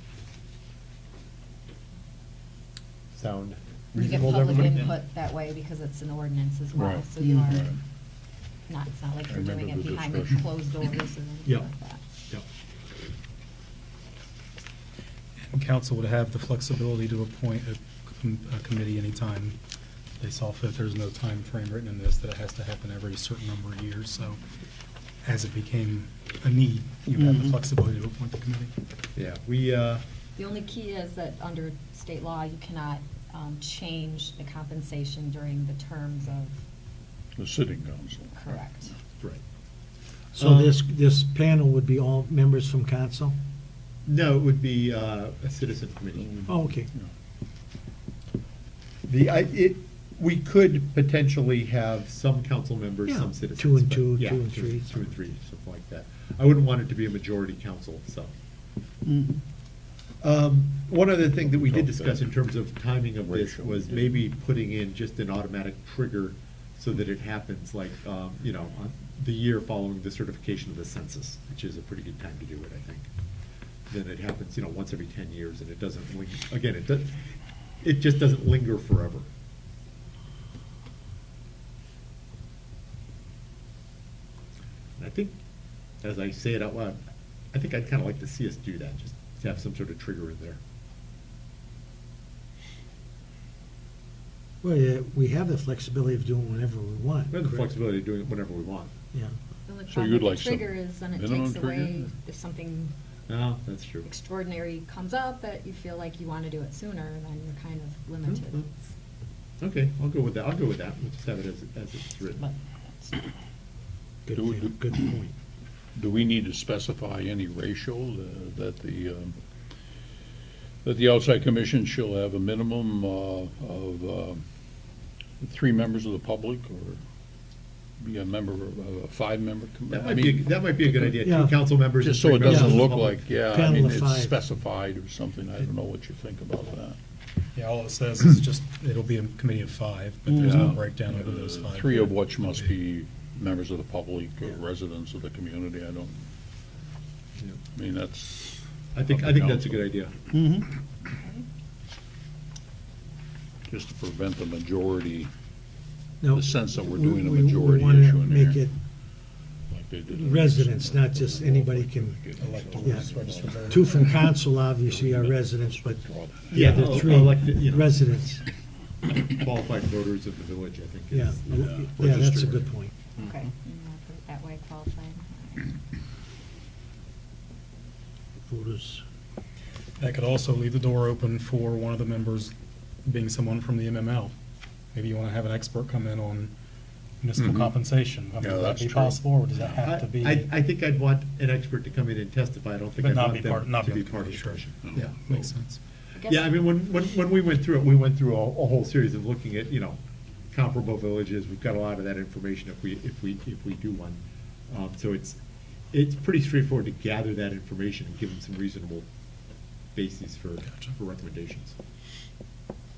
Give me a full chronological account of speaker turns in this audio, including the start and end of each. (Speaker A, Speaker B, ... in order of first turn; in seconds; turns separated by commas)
Speaker A: 3.1-5.0, Speaker B: 3.9-7.8, Speaker C: 6.7-7.8, Speaker B: 8.7-12.0, Speaker C: 9.3-10.9, Speaker A: 11.4-11.7, Speaker D: 15.5-19.6, Speaker D: 20.2-24.4, Speaker D: 25.2-28.7, Speaker A: 29.1-30.0, Speaker B: 30.4-36.5, Speaker C: 37.4-38.5, Speaker B: 38.3-38.9, Speaker E: 40.3-43.4, Speaker A: 40.3-40.8, Speaker A: 44.0-46.4, Speaker C: 46.2-47.1, Speaker E: 46.5-46.9, Speaker A: 49.1-58.3, Speaker E: 53.1-55.1, Speaker A: 60.2-73.1, Speaker C: 61.4-62.3, Speaker C: 63.2-64.1, Speaker A: 73.9-77.3, Speaker A: 77.8-79.3, Speaker A: 85.0-85.3, Speaker A: 86.0-87.0, Speaker A: 87.5-90.6, Speaker E: 94.6-97.7, Speaker A: 97.3-98.9, Speaker B: 99.7-102.9, Speaker C: 99.9-102.1, Speaker A: 103.3-104.1, Speaker B: 104.0-108.7, Speaker A: 108.3-108.7, Speaker A: 109.6-112.4, Speaker B: 112.4-113.3, Speaker E: 114.2-115.3, Speaker C: 114.3-114.9, Speaker C: 115.9-119.3, Speaker C: 120.8-124.4, Speaker C: 125.4-127.0, Speaker C: 128.0-131.3, Speaker A: 129.9-133.2, Speaker E: 131.2-131.6, Speaker C: 132.0-137.0, Speaker E: 132.4-132.9, Speaker E: 133.4-134.3, Speaker D: 137.5-142.7, Speaker C: 140.3-146.2, Speaker C: 147.7-149.9, Speaker A: 148.9-150.1, Speaker B: 151.1-151.4, Speaker C: 153.7-155.3, Speaker E: 156.2-158.7, Speaker C: 156.3-158.6, Speaker C: 159.7-167.1, Speaker E: 160.1-162.2, Speaker D: 162.4-164.3, Speaker E: 162.8-163.1, Speaker E: 163.7-168.4, Speaker A: 166.5-168.1, Speaker A: 169.1-171.4, Speaker E: 171.1-172.9, Speaker C: 171.5-172.7, Speaker B: 173.2-175.8, Speaker E: 178.5-179.0, Speaker D: 180.0-182.5, Speaker D: 183.0-184.3, Speaker D: 184.9-186.5, Speaker D: 187.2-190.5, Speaker C: 187.4-187.7, Speaker C: 188.4-189.8, Speaker A: 189.8-195.2, Speaker D: 193.0-195.8, Speaker C: 194.8-195.5, Speaker B: 196.1-196.5, Speaker A: 196.2-200.0, Speaker A: 200.5-205.4, Speaker A: 205.9-209.1, Speaker A: 209.9-211.8